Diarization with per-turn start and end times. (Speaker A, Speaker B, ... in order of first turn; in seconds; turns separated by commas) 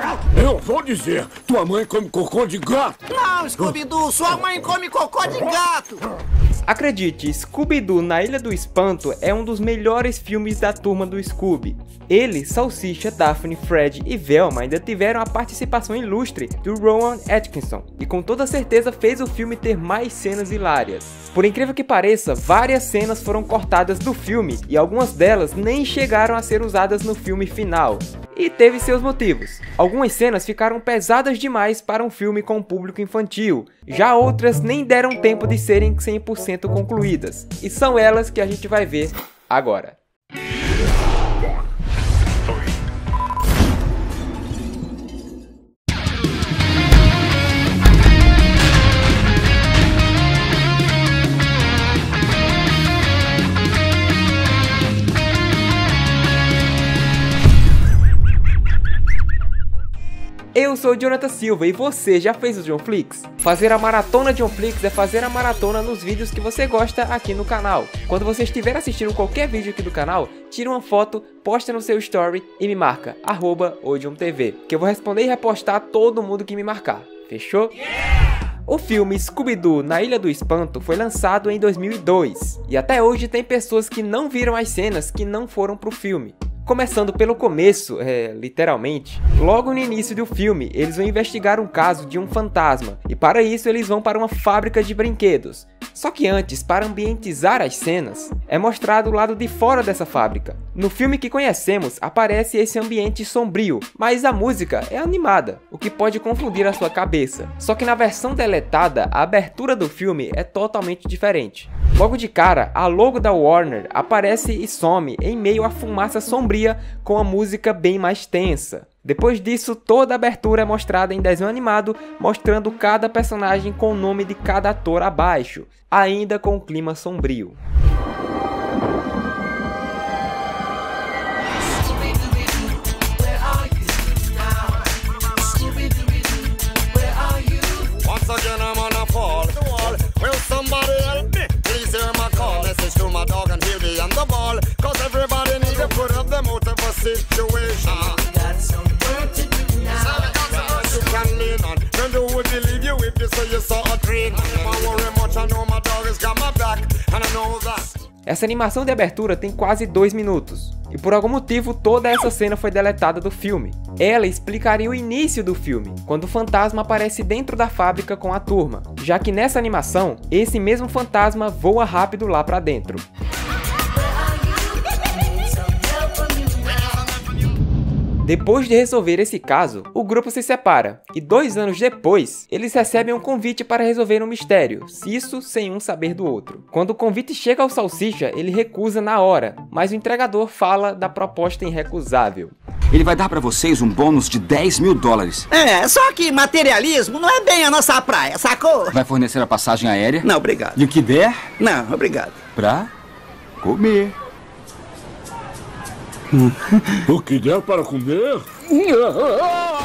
Speaker A: 0.4-2.9, Speaker B: 3.1-6.0, Speaker C: 6.7-40.0, Speaker C: 60.5-77.7, Speaker C: 78.7-127.6, Speaker D: 138.0-148.2, Speaker D: 149.8-157.9, Speaker C: 158.2-173.0, Speaker C: 178.2-192.5, Speaker E: 192.9-195.4, Speaker B: 195.5-199.0, Speaker E: 198.9-201.5, Speaker B: 200.2-200.8, Speaker B: 201.6-202.4, Speaker E: 202.6-202.9, Speaker E: 203.6-204.1, Speaker A: 207.1-209.4